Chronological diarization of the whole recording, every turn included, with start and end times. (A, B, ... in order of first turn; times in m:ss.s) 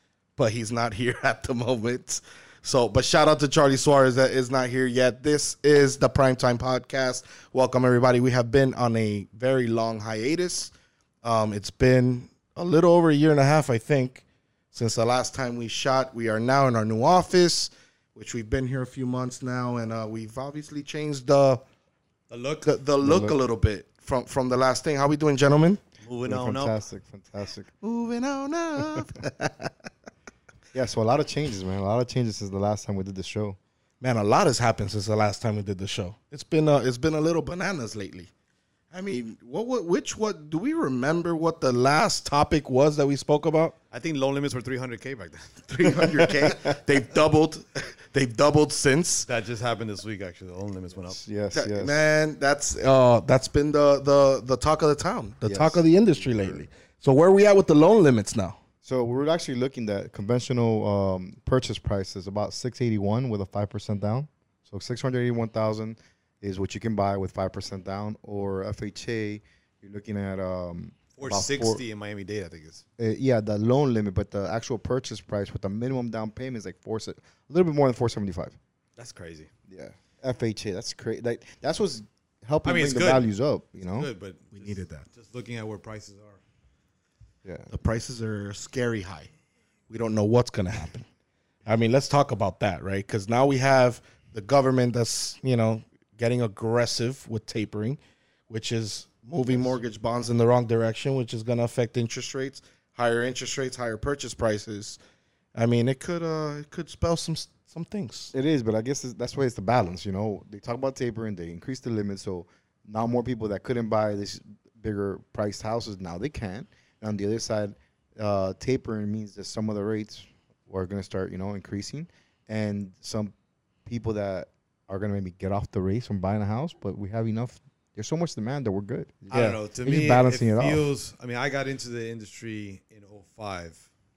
0:00.4-0:10.7 A
0:11.2-0:21.6 A
0:22.3-0:22.7 B
0:22.6-0:25.8 A
0:23.0-0:23.4 C
0:26.0-0:26.7 B
0:26.2-0:27.7 C
0:27.8-0:29.7 A
0:30.7-0:33.6 C
0:34.0-0:38.3 A
0:38.9-0:43.7 A
0:43.9-0:45.6 B
0:45.7-0:49.2 A
0:46.0-0:46.6 C
0:49.2-0:51.2 B
0:51.1-0:52.0 C
0:51.5-0:58.6 A
0:55.4-0:56.6 C
0:58.8-1:11.8 C
1:11.2-1:12.8 B
1:13.0-1:18.6 C
1:19.0-1:19.5 B
1:19.7-1:24.1 C
1:22.6-1:23.2 B
1:23.9-1:26.4 B
1:24.5-1:25.1 A
1:27.4-1:27.7 C
1:27.7-1:29.3 A
1:29.9-1:31.1 A
1:31.6-1:38.0 A
1:38.5-1:45.0 A
1:45.5-1:48.3 A
1:48.3-2:03.3 C
2:03.8-2:10.8 C
2:09.3-2:13.9 B
2:09.3-2:09.6 A